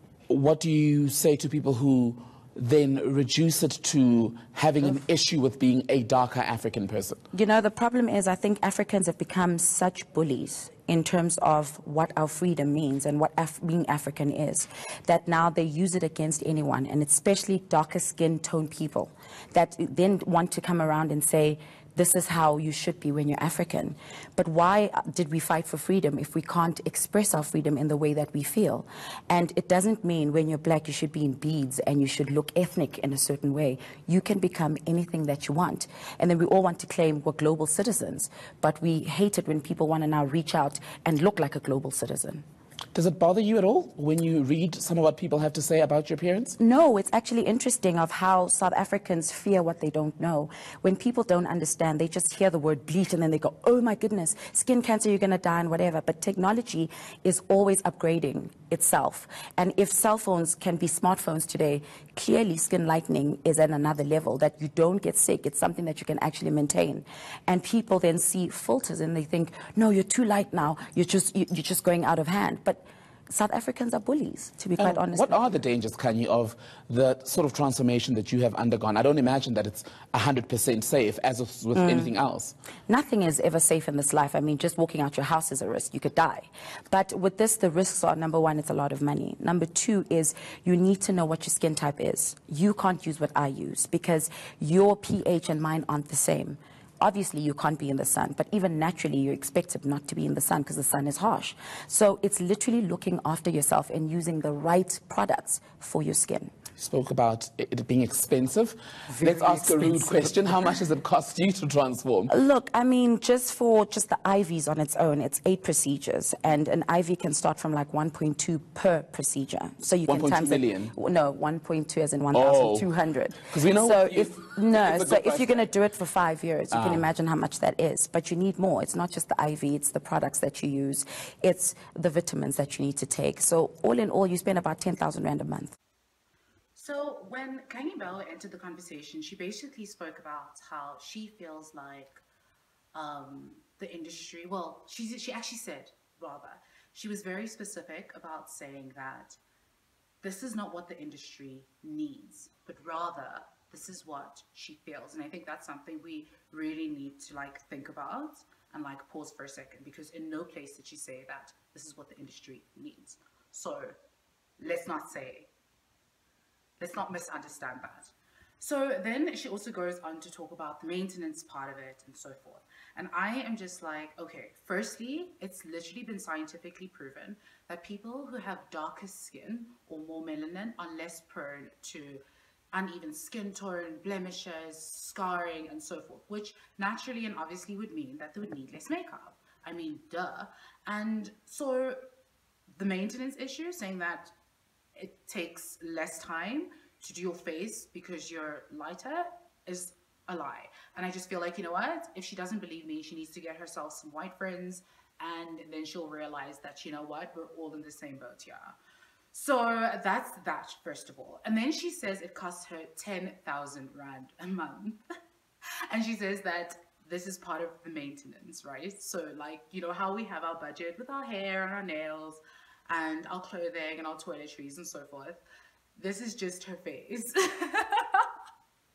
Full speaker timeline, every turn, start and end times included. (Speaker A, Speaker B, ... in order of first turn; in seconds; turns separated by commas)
Speaker A: 0.3-7.2, Speaker B: 7.3-42.4, Speaker A: 42.9-46.5, Speaker B: 46.6-75.5, Speaker A: 74.8-82.5, Speaker B: 81.7-82.1, Speaker B: 82.9-106.5, Speaker A: 106.8-112.2, Speaker B: 109.1-110.8, Speaker B: 112.3-135.8, Speaker A: 120.0-120.9, Speaker A: 122.3-122.8, Speaker A: 123.5-125.7, Speaker A: 126.7-127.0, Speaker C: 136.7-142.2, Speaker C: 142.9-149.4, Speaker C: 150.2-163.9, Speaker C: 164.6-165.5, Speaker C: 166.8-192.0, Speaker C: 192.7-194.3, Speaker C: 194.9-208.8, Speaker C: 209.3-215.0, Speaker C: 215.9-225.4, Speaker C: 225.9-228.3